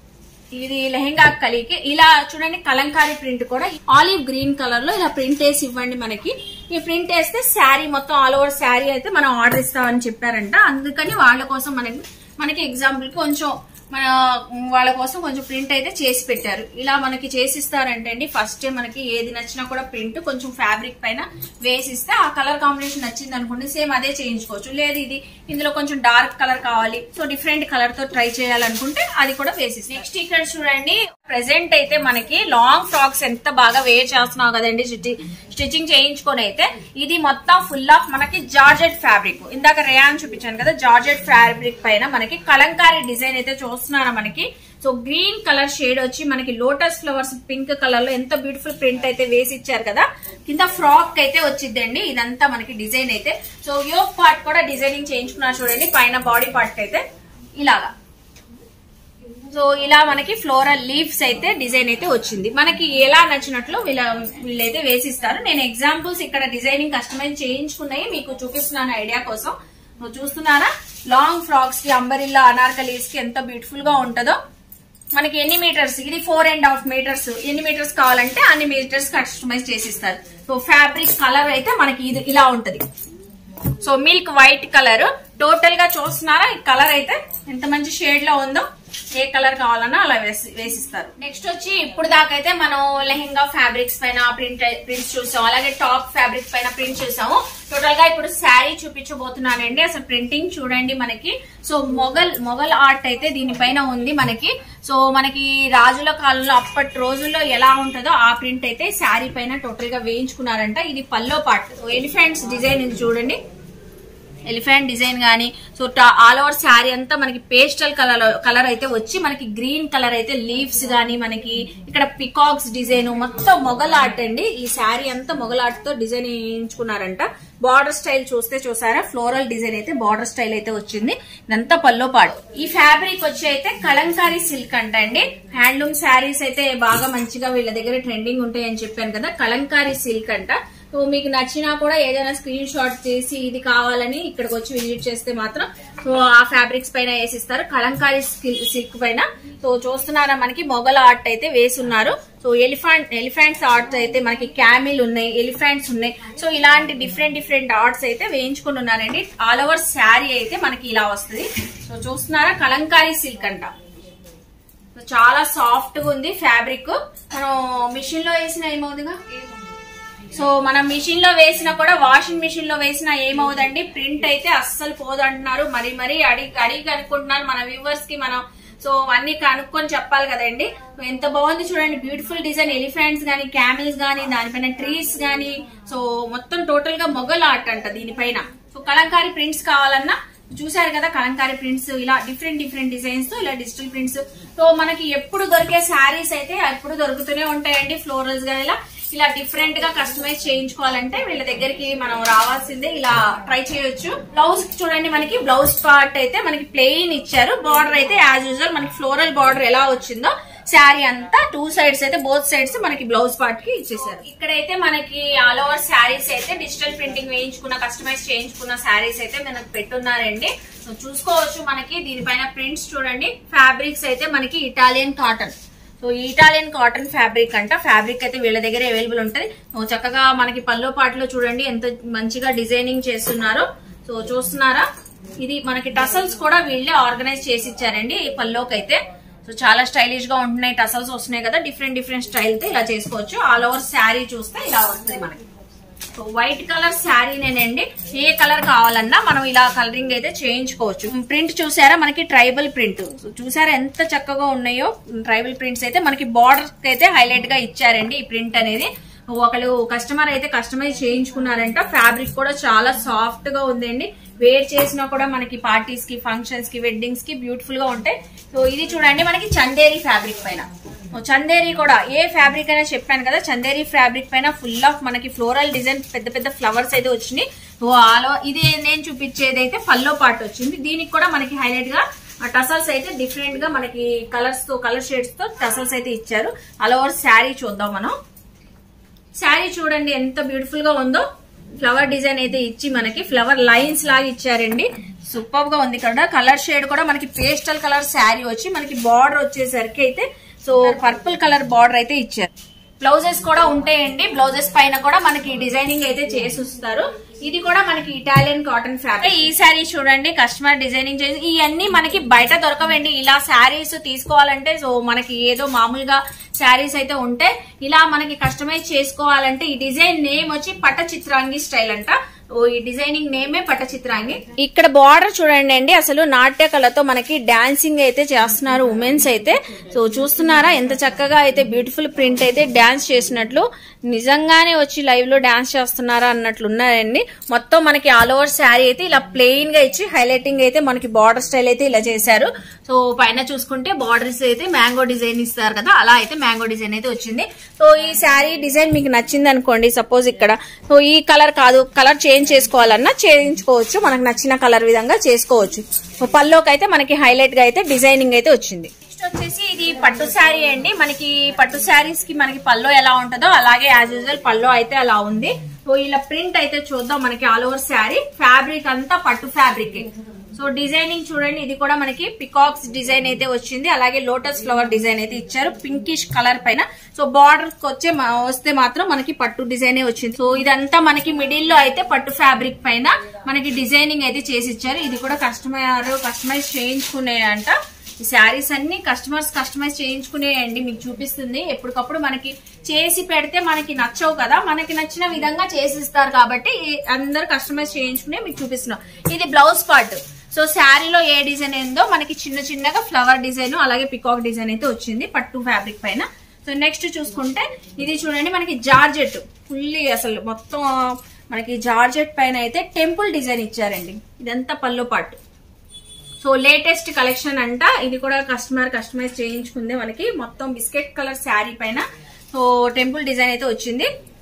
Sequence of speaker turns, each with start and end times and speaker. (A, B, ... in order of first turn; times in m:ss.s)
0:00.5-0:57.0 A
0:57.6-0:57.9 A
0:59.5-1:14.4 A
1:15.2-1:22.8 A
1:23.8-1:53.4 A
1:54.5-2:43.7 A
2:45.0-2:49.4 A
2:50.3-3:54.9 A
3:55.4-4:05.4 A
4:06.2-4:48.1 A
4:49.4-4:51.2 A
4:51.8-5:02.5 A
5:03.0-6:55.4 A
6:56.4-7:04.1 A